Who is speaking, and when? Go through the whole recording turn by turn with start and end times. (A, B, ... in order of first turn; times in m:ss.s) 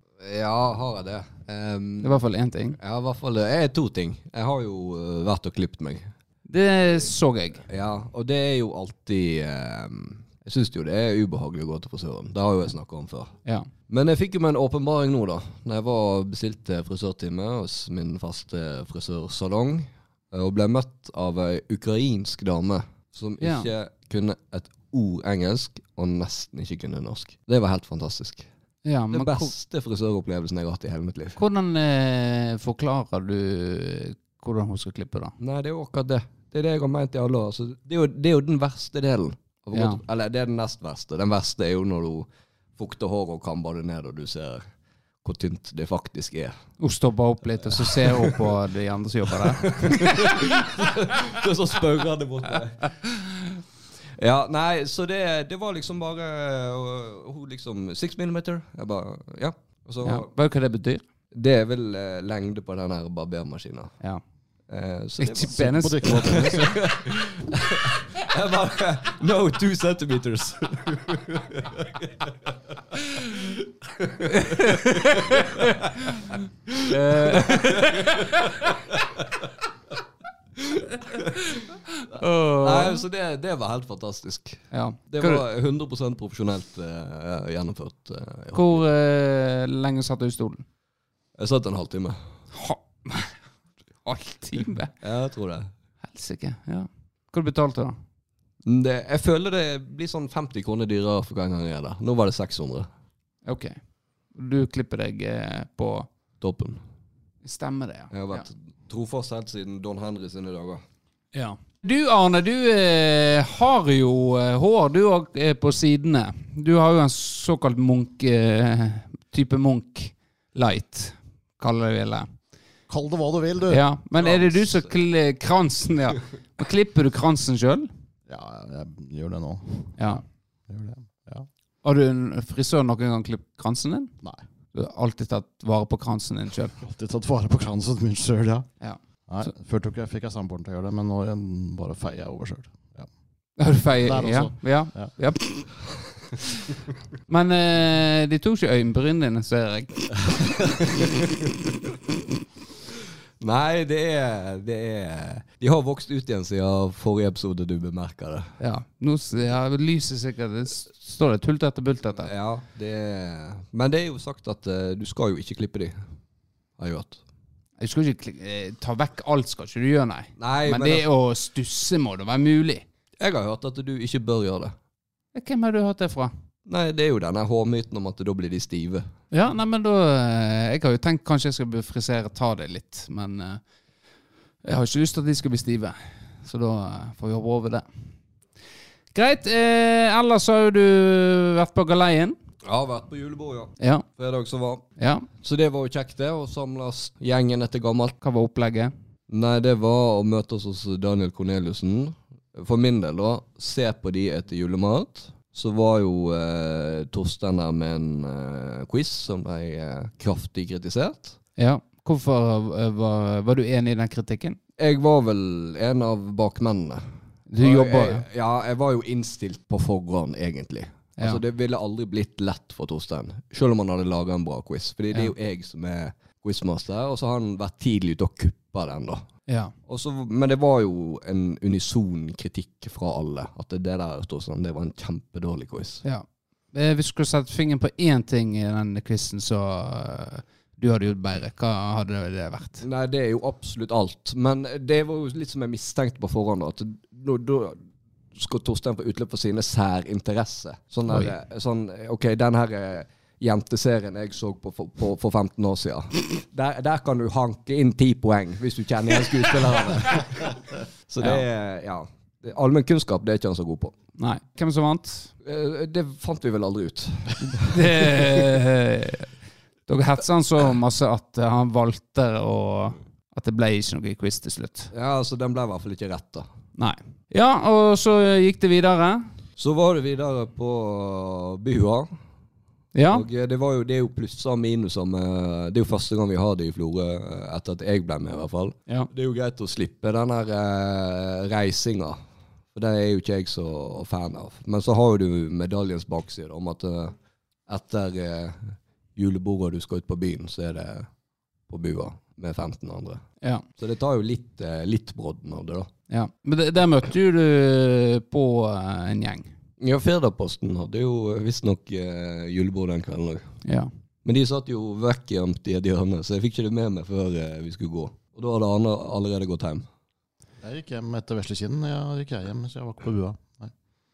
0:00.2-0:02.2 A
0:02.0-0:02.8 B
0:02.8-0:06.1 A
0:06.5-0:07.6 B
0:07.7-0:13.3 A
0:13.9-0:28.4 A
0:23.4-0:23.7 B
0:28.8-0:29.5 B
0:29.1-0:31.4 A
0:31.4-0:35.3 B
0:35.4-0:44.6 A
0:39.7-0:40.0 B
0:45.2-0:46.6 A
0:46.8-0:50.4 B
0:47.7-0:48.5 A
0:49.6-0:53.3 A
0:54.2-1:00.3 A
1:00.0-1:01.0 B
1:01.3-1:04.0 A
1:04.7-1:15.7 A
1:05.2-1:06.7 B
1:05.5-1:06.8 C
1:14.3-1:16.2 B
1:16.7-1:19.5 A
1:16.9-1:18.4 B
1:20.6-1:21.6 A
1:21.9-1:23.0 B
1:22.6-1:28.8 A
1:24.7-1:25.4 B
1:28.5-1:30.6 B
1:31.4-1:32.2 A
1:32.6-1:33.3 B
1:34.0-1:34.9 B
1:35.0-1:35.7 A
1:36.1-1:38.0 B
1:38.6-1:42.9 A
1:43.4-1:43.8 B
1:44.3-1:46.1 B
1:46.4-1:46.8 A
1:47.4-1:48.4 B
1:48.1-1:50.8 A
1:51.3-2:02.3 B
2:02.9-2:03.8 C
2:03.7-2:07.9 B
2:08.3-2:11.5 C
2:10.0-2:10.2 B
2:11.8-2:14.1 B
2:14.7-2:16.8 B
2:16.8-2:18.7 C
2:18.8-2:19.5 B
2:19.3-2:23.1 C
2:23.6-2:25.7 B
2:24.0-2:25.1 C
2:27.3-2:30.2 B
2:30.3-2:31.1 A
2:33.4-2:38.5 A
2:38.6-2:42.3 B
2:42.2-2:46.0 A
2:46.8-2:47.2 A
2:47.8-2:52.8 B
2:50.4-2:51.1 A
2:53.2-2:54.8 A
2:55.3-2:56.3 B
2:56.7-2:59.1 A
2:59.3-3:03.6 B
3:04.6-3:07.8 B
3:09.1-3:12.4 B
3:12.6-3:14.9 A
3:15.0-3:15.3 B
3:15.4-3:18.2 A
3:18.2-3:18.9 B
3:19.3-3:31.4 A
3:31.6-3:34.6 B
3:34.8-3:37.1 A
3:37.5-3:38.2 B
3:37.6-3:49.2 A
3:49.9-3:56.0 A
3:56.0-4:02.8 B
4:02.8-4:07.8 A
4:08.3-4:23.9 A
4:24.2-4:25.3 B
4:25.4-4:28.4 A
4:27.7-4:29.3 B
4:29.9-4:34.9 B
4:34.9-4:36.4 A
4:36.8-4:39.2 B
4:39.6-4:42.1 A
4:42.9-4:43.2 B
4:43.1-4:52.2 A
4:52.7-4:57.2 A
4:57.7-5:01.1 A
5:01.7-5:03.2 A
5:03.8-5:05.9 A
5:06.1-5:09.5 B
5:09.8-5:13.5 A
5:13.6-5:13.9 B
5:14.2-5:19.8 A
5:20.6-5:23.7 C